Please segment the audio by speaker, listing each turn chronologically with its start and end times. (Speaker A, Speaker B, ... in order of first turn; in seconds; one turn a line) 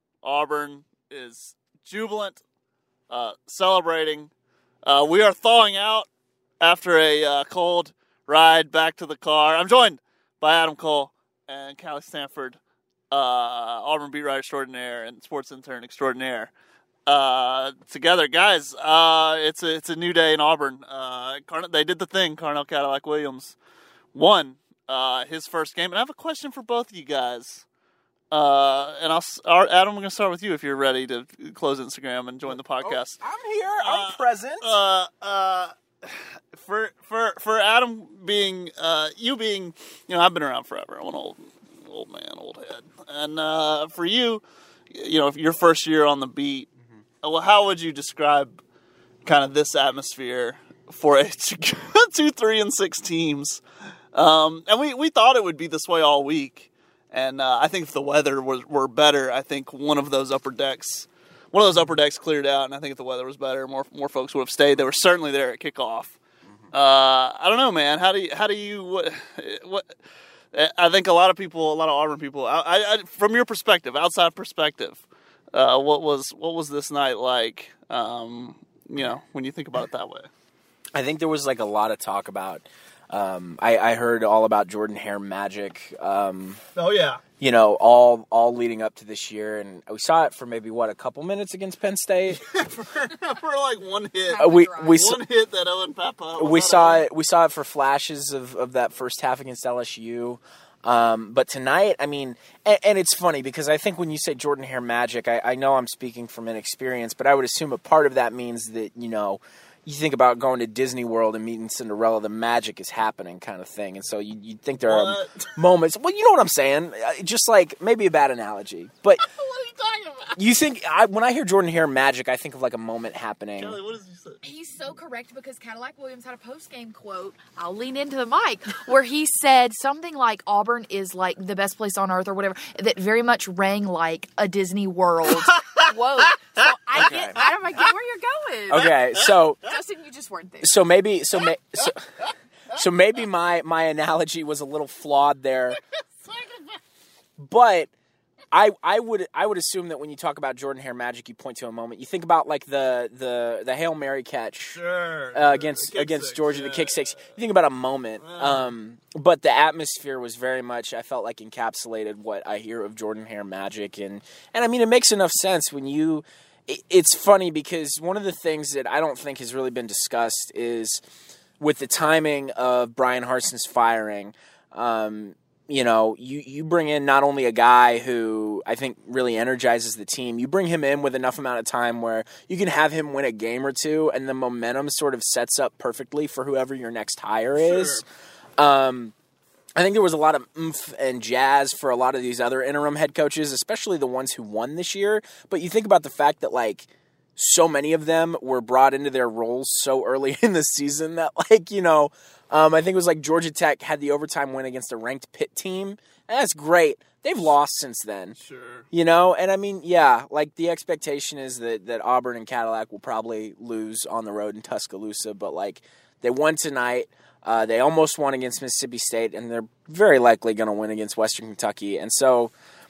Speaker A: 0.2-2.4
Speaker A: 3.1-4.3
Speaker A: 4.8-6.1
Speaker A: 6.6-12.6
Speaker A: 13.1-16.5
Speaker A: 17.1-23.6
Speaker A: 24.1-27.7
Speaker A: 28.3-33.2
Speaker B: 32.5-34.7
Speaker A: 33.8-46.7
Speaker A: 47.2-48.6
Speaker A: 49.2-53.6
Speaker A: 54.1-66.2
Speaker A: 66.7-69.9
Speaker A: 70.5-80.3
Speaker B: 80.9-86.6
Speaker A: 86.8-87.2
Speaker B: 87.4-92.4
Speaker A: 92.3-97.1
Speaker C: 94.3-95.1
Speaker B: 94.4-95.2
Speaker B: 96.4-119.2
Speaker A: 114.8-115.5
Speaker A: 119.2-120.4
Speaker B: 120.4-123.8
Speaker A: 123.6-124.4
Speaker C: 124.4-140.9
Speaker A: 135.4-135.9
Speaker B: 136.9-137.5
Speaker B: 138.7-139.7
Speaker B: 140.6-142.1
Speaker B: 142.7-145.8
Speaker A: 146.2-146.6
Speaker B: 147.4-147.9
Speaker B: 148.5-154.8
Speaker A: 154.7-157.2
Speaker B: 155.3-171.0
Speaker A: 158.2-158.7
Speaker B: 171.6-188.0
Speaker A: 187.6-188.0
Speaker B: 188.6-189.2
Speaker B: 189.8-208.4
Speaker A: 208.4-208.9
Speaker B: 208.9-222.5